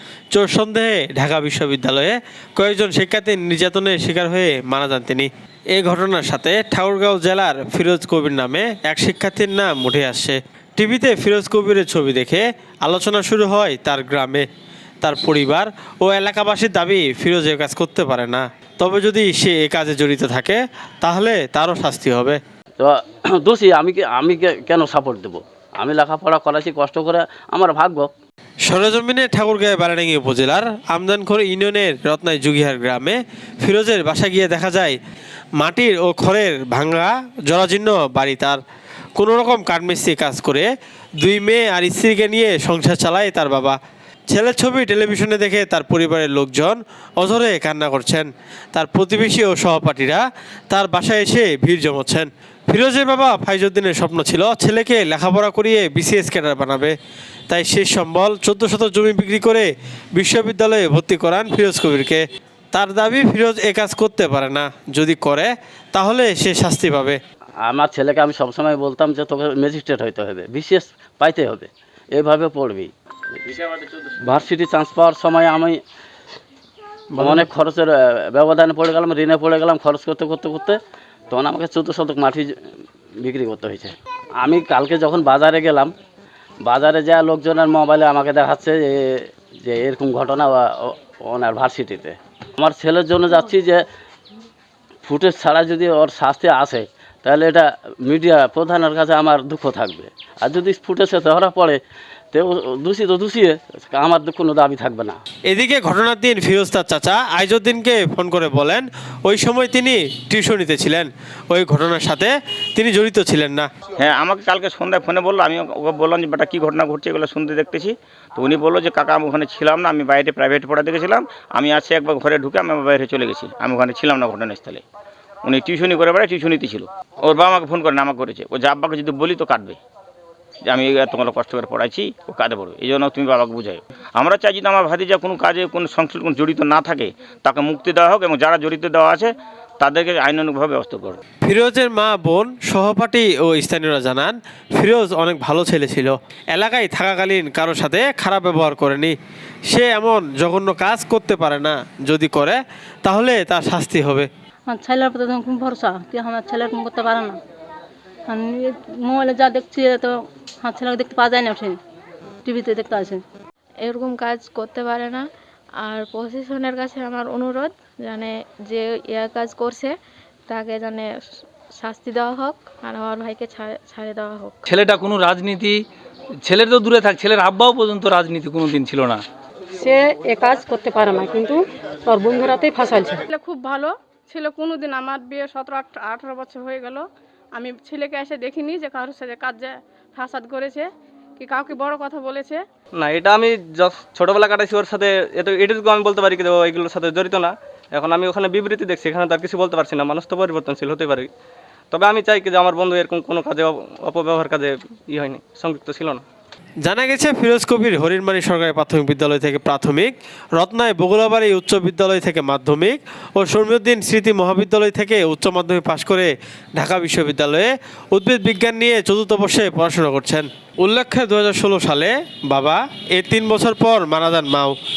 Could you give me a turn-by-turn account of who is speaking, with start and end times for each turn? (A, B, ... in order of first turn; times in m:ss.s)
0:00.3-0:14.5 A
0:15.0-0:22.4 A
0:22.8-0:28.1 B
0:28.7-0:35.0 A
0:35.6-0:38.6 A
0:39.2-0:40.7 A
0:41.2-0:43.8 A
0:44.3-0:56.9 A
0:57.5-1:02.2 A
1:02.7-1:07.2 A
1:07.6-1:12.9 B
1:13.4-1:15.8 B
1:17.2-1:20.8 B
1:21.3-1:22.5 B
1:23.2-1:25.9 B
1:26.6-1:33.8 B
1:35.0-1:41.8 B
1:42.3-1:45.2 B
1:45.5-1:53.7 A
1:54.0-2:04.8 C
2:05.4-2:09.8 C
2:10.7-2:21.2 C
2:21.4-2:29.2 A
2:29.7-2:34.3 A
2:34.7-2:37.4 D
2:38.3-2:41.8 D
2:42.4-2:43.2 D
2:43.8-2:45.2 E
2:45.8-2:50.0 E
2:50.5-2:51.1 E
2:51.8-2:54.7 E
2:54.7-2:55.8 F
2:56.4-2:59.2 F
2:59.8-3:03.2 G
3:03.3-3:10.9 H
3:11.4-3:12.6 H
3:13.0-3:21.3 I
3:21.9-3:26.2 I
3:26.9-3:44.8 A